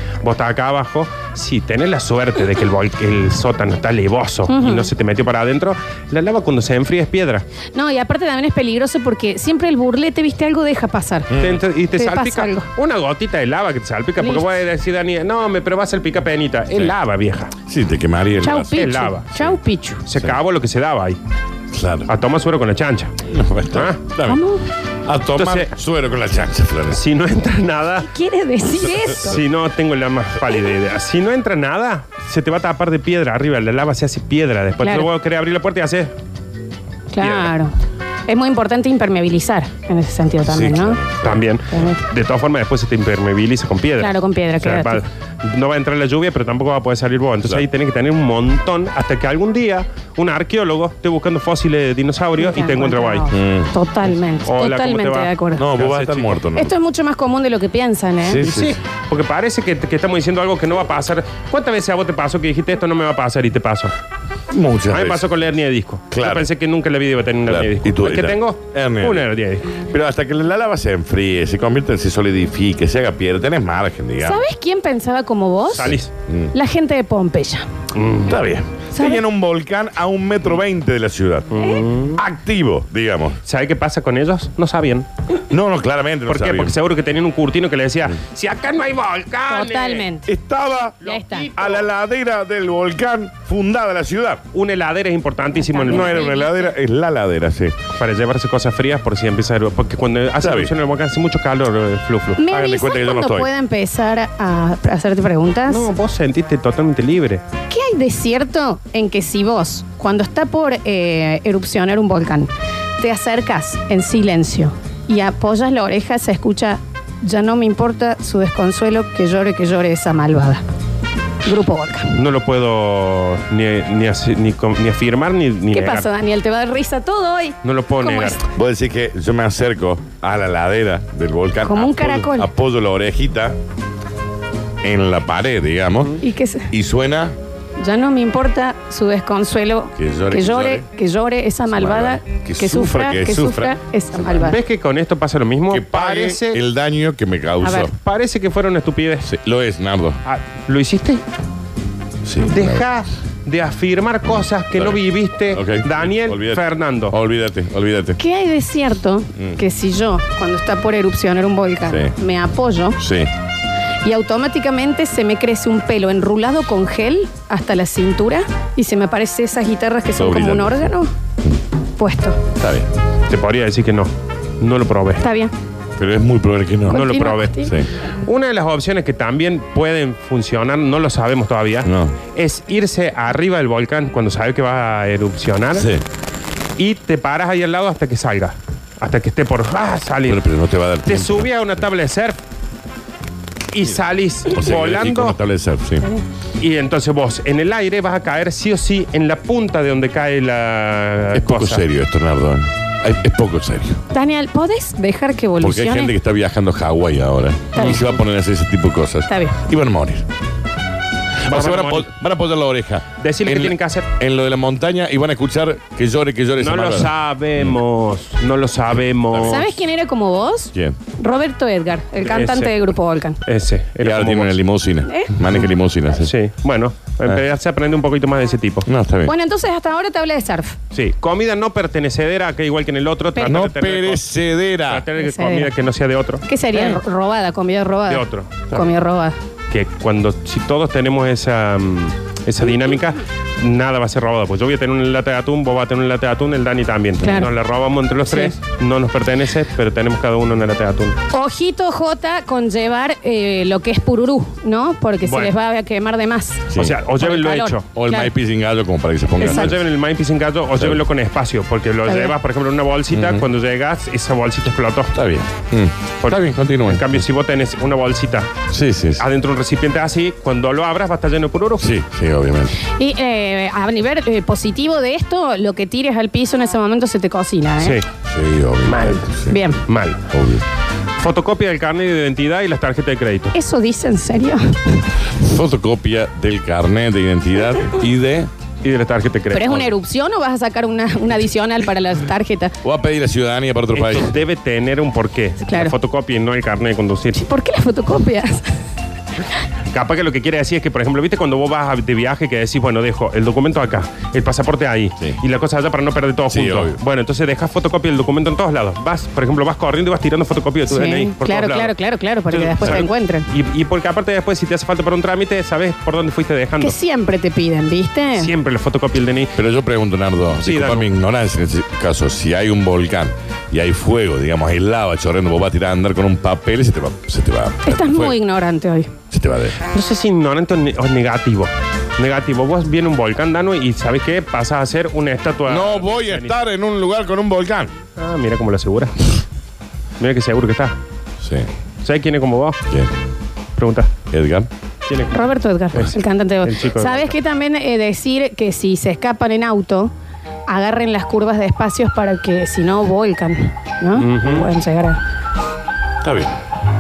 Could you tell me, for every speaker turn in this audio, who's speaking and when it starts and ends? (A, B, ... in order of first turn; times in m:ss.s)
0:00.2-0:07.4 A
0:04.5-0:04.9 B
0:07.7-0:11.3 B
0:11.3-0:11.6 C
0:11.4-0:17.5 A
0:11.9-0:12.7 B
0:14.2-0:14.5 B
0:17.7-0:18.8 C
0:18.4-0:20.0 B
0:18.7-0:19.5 A
0:20.0-0:21.2 A
0:21.7-0:22.1 C
0:22.1-0:23.1 A
0:23.3-0:24.4 C
0:23.7-0:24.0 A
0:24.2-0:24.6 B
0:25.0-0:27.0 C
0:25.3-0:25.7 A
0:26.9-0:28.1 A
0:28.0-0:29.4 B
0:29.1-0:29.4 C
0:29.2-0:36.1 A
0:34.8-0:35.1 B
0:37.1-0:37.7 B
0:37.2-0:37.5 A
0:38.3-0:41.0 B
0:40.4-0:41.4 C
0:41.2-0:53.3 A
0:41.7-0:42.0 B
0:44.0-0:45.0 B
0:52.4-0:55.6 B
0:53.3-0:53.7 C
0:54.4-0:56.4 A
0:55.6-0:56.7 C
0:56.5-0:58.4 B
0:58.2-0:58.8 C
0:58.4-1:03.9 A
1:04.5-1:05.2 C
1:04.9-1:09.7 A
1:06.1-1:06.5 C
1:07.4-1:09.2 C
1:09.8-1:14.4 C
1:14.2-1:16.0 B
1:15.7-1:16.1 A
1:16.3-1:16.5 C
1:16.5-1:17.7 B
1:17.9-1:18.4 A
1:18.3-1:21.5 C
1:18.9-1:19.2 B
1:21.5-1:22.2 A
1:21.6-1:21.8 B
1:22.1-1:23.4 C
1:23.4-1:25.1 A
1:25.5-1:26.8 C
1:26.3-1:30.0 A
1:29.5-1:30.3 B
1:30.3-1:31.0 C
1:31.0-1:31.5 B
1:31.0-1:31.8 A
1:31.6-1:34.4 C
1:34.5-1:36.2 A
1:35.7-1:36.7 B
1:35.9-1:37.8 C
1:38.0-1:42.4 A
1:40.4-1:40.7 C
1:42.4-1:45.9 B
1:42.5-1:43.5 C
1:45.7-1:47.4 A
1:47.7-2:00.6 B
2:01.4-2:02.1 B
2:02.1-2:06.1 A
2:05.7-2:08.4 B
2:07.6-2:08.4 A
2:08.5-2:13.6 C
2:11.6-2:12.5 B
2:14.8-2:16.2 C
2:16.2-2:16.7 B
2:16.7-2:17.3 C
2:17.8-2:24.6 B
2:20.0-2:20.8 C
2:21.7-2:24.5 C
2:24.4-2:26.6 A
2:25.7-2:27.9 C
2:27.6-2:29.3 A
2:29.2-2:30.2 C
2:30.2-2:31.2 A
2:32.2-2:32.8 C
2:32.5-2:37.2 A
2:34.7-2:35.0 C
2:35.5-2:38.2 C
2:38.2-2:43.0 B
2:43.0-2:43.3 C
2:44.0-2:51.1 B
2:50.1-2:51.6 C
2:52.0-2:52.4 B
2:52.6-2:52.9 C
2:53.3-2:55.2 A
2:55.2-2:55.5 B
2:56.0-2:57.9 C
2:56.9-2:57.7 B
2:56.9-2:57.7 A
2:58.2-3:05.9 A
3:01.8-3:02.2 C
3:05.8-3:06.0 C
3:06.8-3:10.4 A
3:10.2-3:11.8 C
3:11.0-3:12.4 A
3:13.7-3:15.4 A
3:14.5-3:16.0 C
3:16.6-3:21.8 A
3:21.3-3:24.0 C
3:24.1-3:26.1 B
3:25.6-3:30.2 C
3:27.7-3:28.0 B
3:27.8-3:28.0 A
3:29.3-3:29.5 B
3:31.4-3:37.8 C
3:31.5-3:32.1 A
3:33.2-3:34.0 A
3:36.6-3:39.7 A
3:39.3-3:39.6 C
3:39.4-3:43.4 B
3:42.2-3:42.8 A
3:43.4-3:44.5 A
3:44.0-3:46.3 C
3:45.0-3:45.3 B
3:46.2-3:48.8 A
3:48.8-3:49.3 C
3:49.2-3:50.8 B
3:50.9-3:54.2 A
3:53.4-3:55.1 C
3:54.9-3:57.0 A
3:55.2-3:55.7 B
3:56.4-3:59.4 B
3:58.1-3:58.7 A
3:59.7-4:11.2 A
4:07.2-4:07.5 B
4:08.2-4:08.5 B
4:11.3-4:16.7 B
4:15.2-4:15.5 A
4:16.8-4:17.9 A
4:17.2-4:18.3 B
4:17.9-4:19.8 C
4:19.4-4:25.1 A
4:19.4-4:19.7 B
4:20.7-4:21.0 C
4:22.1-4:22.3 B
4:23.1-4:23.4 C
4:25.1-4:27.2 C
4:26.2-4:28.5 A
4:28.7-4:29.2 C
4:29.2-4:31.9 A
4:31.8-4:32.7 C
4:32.8-4:38.0 B
4:37.8-4:38.0 A
4:38.3-4:39.7 C
4:38.9-4:39.2 A
4:39.5-4:39.8 B
4:39.9-4:40.2 A
4:40.3-4:40.6 C
4:41.2-4:43.5 A
4:43.5-4:44.8 B
4:45.3-4:48.5 C
4:48.8-4:49.8 A
4:49.5-4:52.7 B
4:52.8-4:54.3 C
4:53.9-4:57.4 A
4:55.6-4:55.9 B
4:57.4-4:58.7 B
4:59.9-5:11.9 A
5:06.5-5:07.0 C
5:10.9-5:13.5 B
5:12.5-5:17.0 A
5:16.8-5:18.5 B
5:18.4-5:19.5 A
5:19.5-5:28.4 C
5:20.5-5:21.1 A
5:27.8-5:29.1 B
5:29.3-5:29.8 C
5:29.9-5:36.6 A
5:35.7-5:37.9 C
5:38.2-5:39.2 A
5:40.2-5:41.0 A
5:41.4-5:41.7 C
5:42.0-5:42.8 A
5:43.8-5:44.1 A
5:44.3-5:44.7 C
5:45.1-5:45.3 A
5:45.3-5:50.1 B
5:45.9-5:47.3 A
5:50.7-5:55.2 B
5:54.2-5:54.7 A
5:56.2-5:56.5 C